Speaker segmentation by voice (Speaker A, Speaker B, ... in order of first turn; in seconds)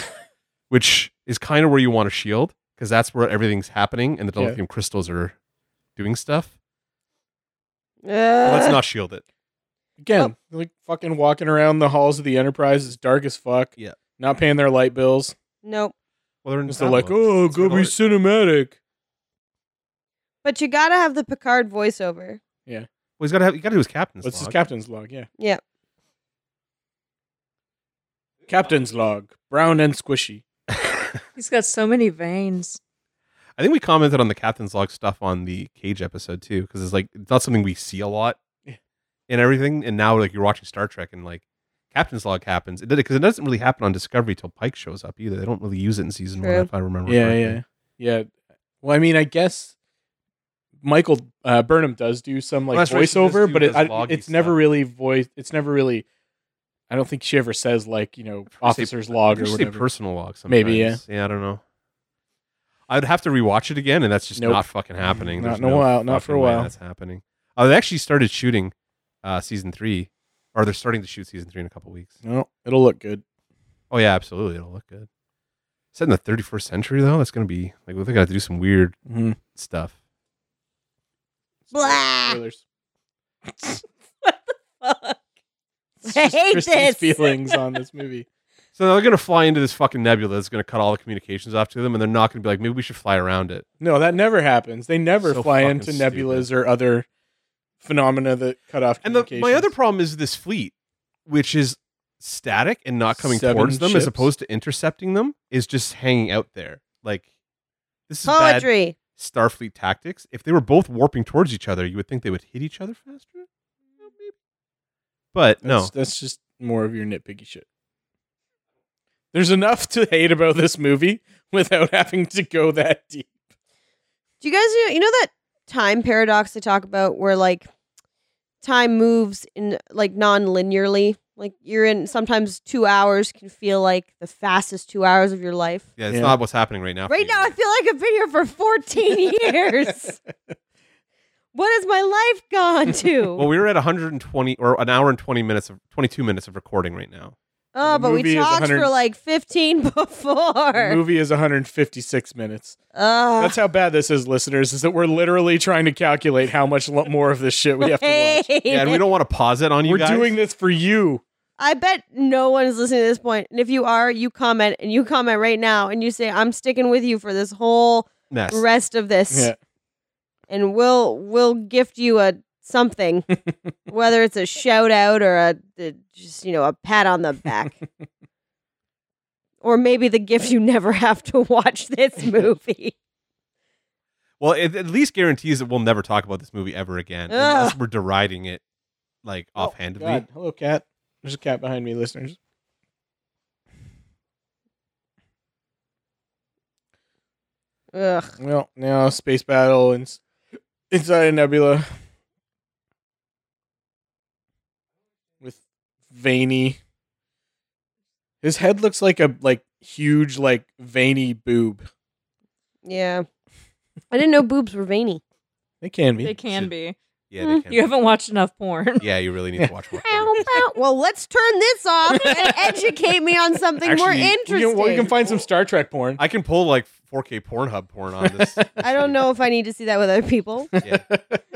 Speaker A: 0.7-5.3, 6.0-6.5, 8.4-9.2, 16.4-18.0, 23.2-24.6, 33.6-38.4, 39.3-47.6, 52.7-54.6, 58.6-61.6, 62.9-72.2, 73.9-75.1, 75.9-79.0, 79.5-79.9, 88.8-93.7, 95.2-96.5, 99.0-100.7, 101.3-107.2, 108.1-113.5, 114.0-114.3, 115.3-115.9, 136.0-137.5, 143.4-147.3, 158.7-160.3, 168.3-168.6, 184.4-188.6, 189.2-190.2, 216.4-216.7, 217.3-218.0, 219.0-220.4, 223.8-224.4, 226.2-229.2
Speaker B: 8.0-8.8, 15.6-15.9, 20.4-22.4, 46.4-46.7, 81.7-82.4, 84.9-85.1, 86.0-87.4, 108.3-109.0, 124.4-127.7, 128.6-135.9, 137.1-140.2, 141.5-143.4, 147.7-151.0, 152.9-153.6, 157.8-159.1, 161.6-169.5, 170.5-173.3, 173.9-177.8, 179.6-182.9, 187.3-187.8, 197.9-198.4, 212.8-213.3, 214.1-215.2, 220.0-225.4, 228.8-230.7
Speaker C: 10.0-15.3, 16.7-18.8, 24.2-25.3, 28.5-30.4, 47.1-48.3, 48.8-49.7, 50.8-56.0, 56.9-59.9, 60.5-61.0, 64.4-66.7, 72.2-73.2, 79.1-79.4, 81.7-82.6, 86.0-88.3, 93.8-97.1, 97.8-99.7, 103.2-104.3, 115.6-117.7, 119.3-123.3, 136.1-136.4, 147.8-148.9, 150.7-152.8, 153.4-158.5, 159.8-161.2, 169.3-169.6, 189.6-192.4, 198.4-200.2, 200.9-201.9, 205.4-206.8, 208.4-211.9, 215.8-216.3, 222.1-222.7, 224.4-226.2, 228.3-228.7, 230.7-231.4
Speaker D: 31.4-32.8, 216.2-217.0, 217.7-219.1